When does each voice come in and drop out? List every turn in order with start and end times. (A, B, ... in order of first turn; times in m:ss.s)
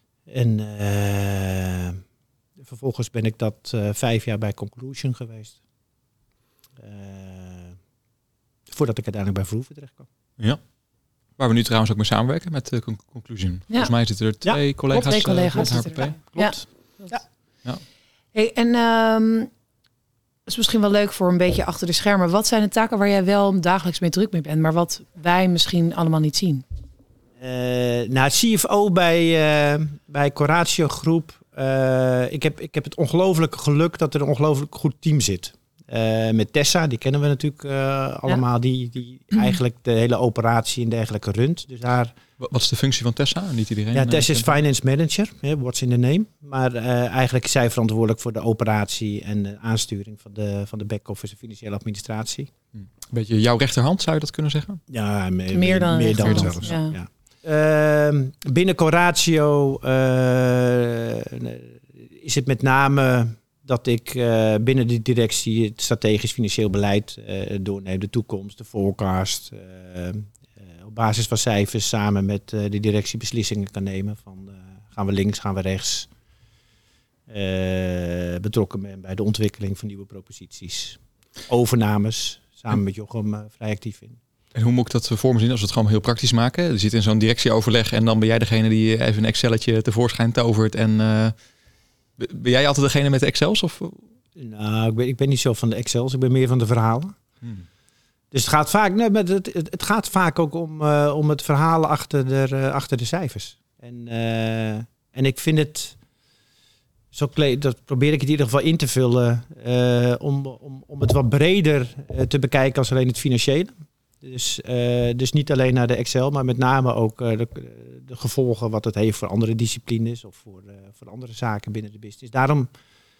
0:00.3-0:02.0 A
0:02.6-0:05.6 A
0:06.8-0:07.8 A
0:08.7-0:10.1 A
0:11.4-0:16.2 B
0:14.9-0:17.2 C
0:16.3-0:17.2 A
0:18.3-0:19.5 C
0:20.5-0:26.6 C
0:27.4-0:42.2 A
0:42.4-0:44.6 B
0:43.9-0:52.5 A
0:52.8-0:54.8 B
0:54.9-1:16.1 A
0:55.5-0:57.0 C
0:56.2-0:56.5 B
1:17.3-1:24.2 A
1:24.6-1:31.3 B
1:32.2-1:34.0 B
1:34.4-1:37.2 A
1:38.3-1:46.0 A
1:47.1-2:02.7 A